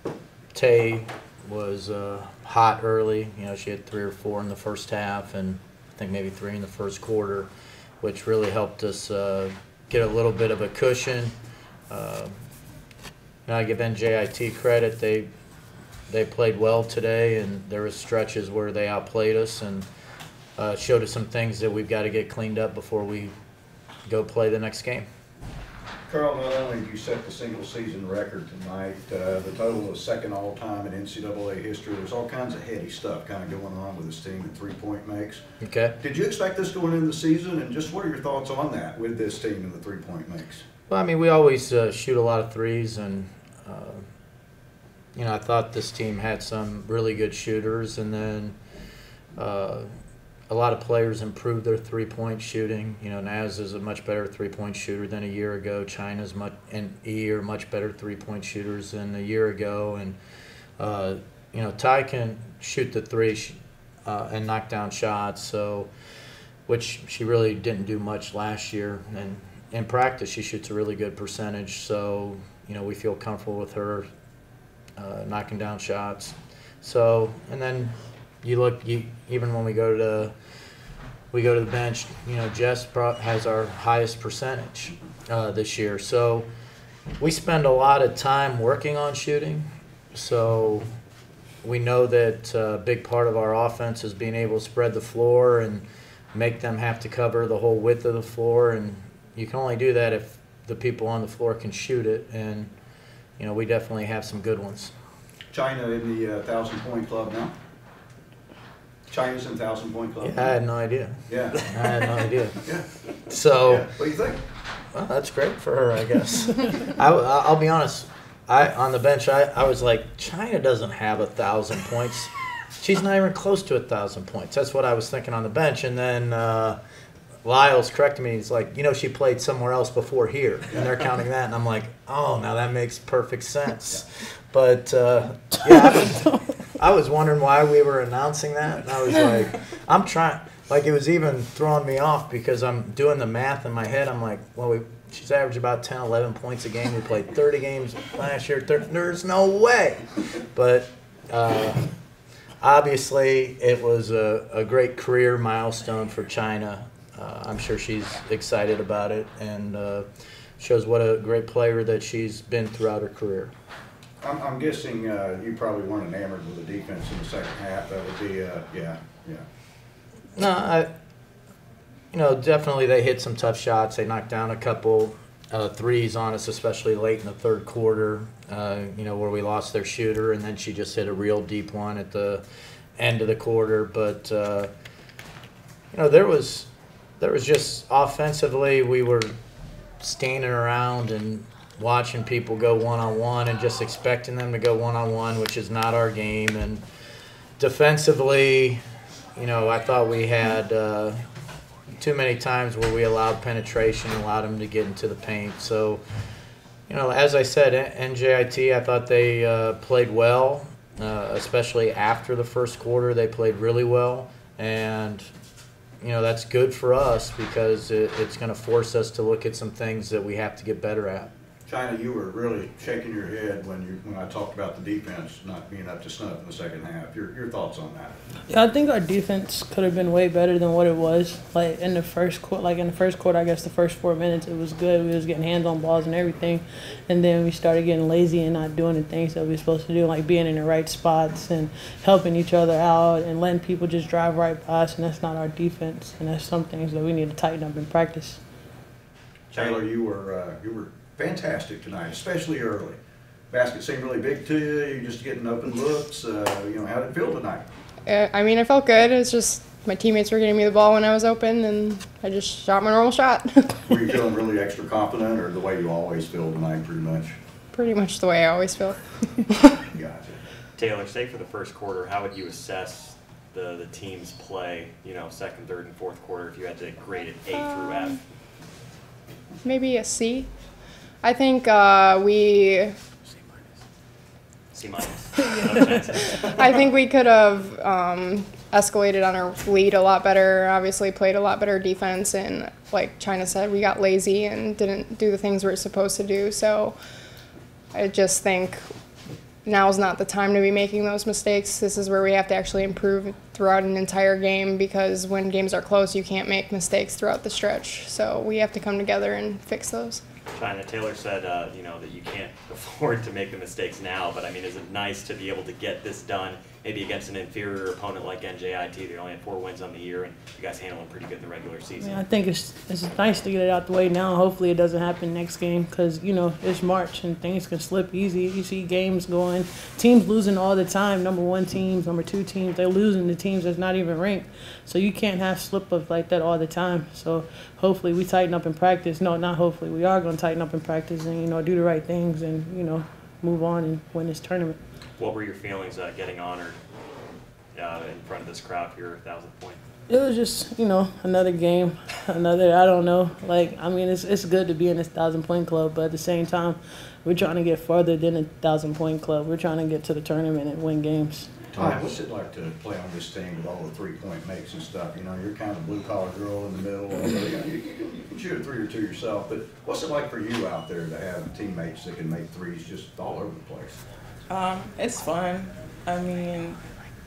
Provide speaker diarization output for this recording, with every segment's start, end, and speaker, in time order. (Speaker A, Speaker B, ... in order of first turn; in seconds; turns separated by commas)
Speaker A: 0.5-11.3, Speaker A: 11.9-12.3, Speaker A: 13.4-15.3, Speaker A: 16.1-19.9, Speaker A: 20.6-23.3, Speaker A: 24.1-25.1, Speaker B: 26.1-35.4, Speaker A: 35.6-36.0, Speaker B: 36.0-40.6, Speaker A: 40.9-44.0, Speaker A: 45.1-48.5, Speaker A: 49.4-49.9, Speaker A: 50.5-60.2, Speaker A: 60.8-65.9, Speaker A: 66.7-74.0, Speaker A: 75.0-80.3, Speaker A: 81.3-86.5, Speaker A: 87.2-90.9, Speaker A: 91.6-102.7, Speaker A: 103.4-104.9, Speaker B: 105.5-107.5, Speaker B: 109.1-110.5, Speaker A: 110.2-112.6, Speaker B: 111.3-111.7, Speaker A: 113.3-113.8, Speaker B: 113.6-114.4, Speaker A: 114.9-126.8, Speaker A: 127.4-151.9, Speaker A: 152.6-160.1, Speaker A: 160.6-163.5, Speaker B: 164.2-169.4, Speaker A: 170.4-170.9, Speaker A: 172.1-182.4, Speaker A: 183.0-184.7, Speaker A: 185.9-186.7, Speaker A: 187.2-189.3, Speaker A: 190.0-196.8, Speaker A: 197.6-198.8, Speaker A: 199.3-201.2, Speaker A: 202.0-206.0, Speaker A: 206.9-215.2, Speaker A: 216.0-221.3, Speaker B: 221.7-228.1, Speaker C: 228.5-248.4, Speaker B: 249.5-253.0, Speaker B: 253.5-257.6, Speaker D: 258.1-263.8, Speaker B: 263.9-267.4, Speaker D: 267.7-269.7, Speaker B: 269.9-270.4, Speaker E: 270.8-278.2, Speaker D: 277.6-278.1, Speaker D: 279.6-280.5, Speaker D: 281.2-282.9, Speaker E: 284.7-286.5, Speaker D: 286.3-296.9, Speaker D: 297.9-298.8, Speaker D: 299.6-310.2, Speaker E: 310.5-322.2, Speaker C: 322.0-344.8, Speaker E: 345.2-346.8, Speaker E: 347.7-349.8, Speaker C: 350.1-361.5, Speaker B: 361.7-374.0, Speaker A: 361.8-362.0, Speaker F: 374.5-376.8